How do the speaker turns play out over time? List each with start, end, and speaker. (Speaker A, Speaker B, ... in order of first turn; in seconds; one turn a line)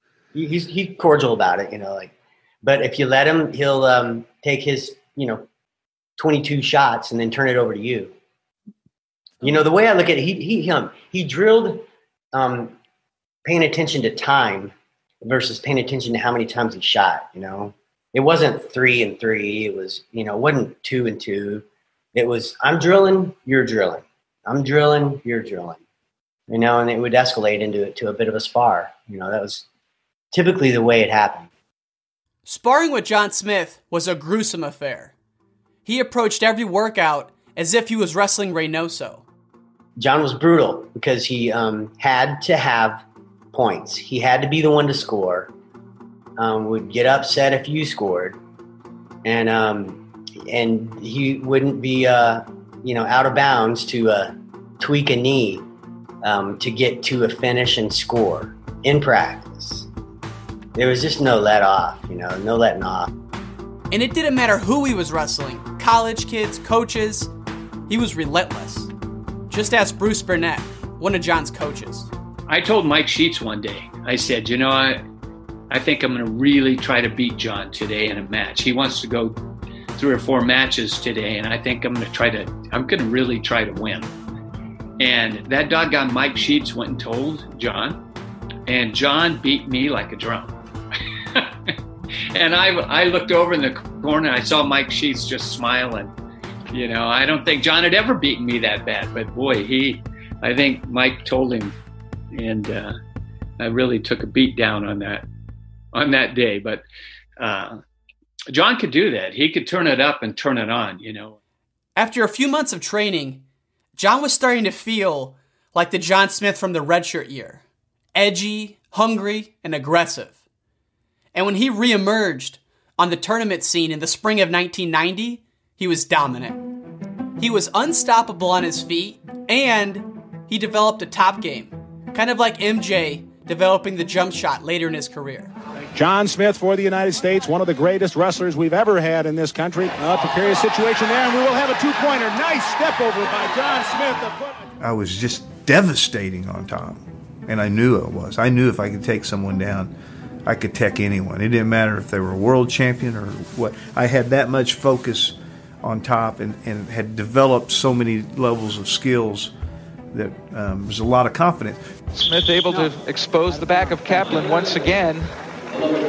Speaker A: 0.3-5.5
Speaker A: 6.2-8.1
Speaker A: 9.4-12.7
Speaker A: 13.4-14.7
Speaker A: 15.2-25.8
Speaker A: 26.5-29.6
Speaker A: 30.3-31.5
Speaker B: 32.5-35.1
Speaker B: 35.9-39.2
Speaker A: 40.0-45.5
Speaker A: 46.4-48.4
Speaker A: 49.2-55.6
Speaker A: 56.2-59.9
Speaker A: 60.8-63.1
Speaker B: 63.9-67.3
Speaker B: 67.9-68.9
Speaker B: 69.5-72.1
Speaker C: 72.5-75.0
Speaker C: 75.7-79.4
Speaker C: 80.0-84.1
Speaker C: 85.0-88.0
Speaker C: 88.7-90.5
Speaker C: 92.3-96.1
Speaker C: 96.7-101.7
Speaker C: 102.3-103.0
Speaker C: 103.6-105.2
Speaker C: 105.9-106.8
Speaker C: 107.4-107.8
Speaker C: 108.5-111.3
Speaker B: 112.0-113.4
Speaker B: 114.0-117.6
Speaker B: 118.1-120.4
Speaker B: 121.3-126.6
Speaker B: 127.4-135.5
Speaker D: 135.9-144.6
Speaker E: 144.8-149.9
Speaker E: 150.4-159.5
Speaker E: 160.1-161.8
Speaker F: 162.1-165.3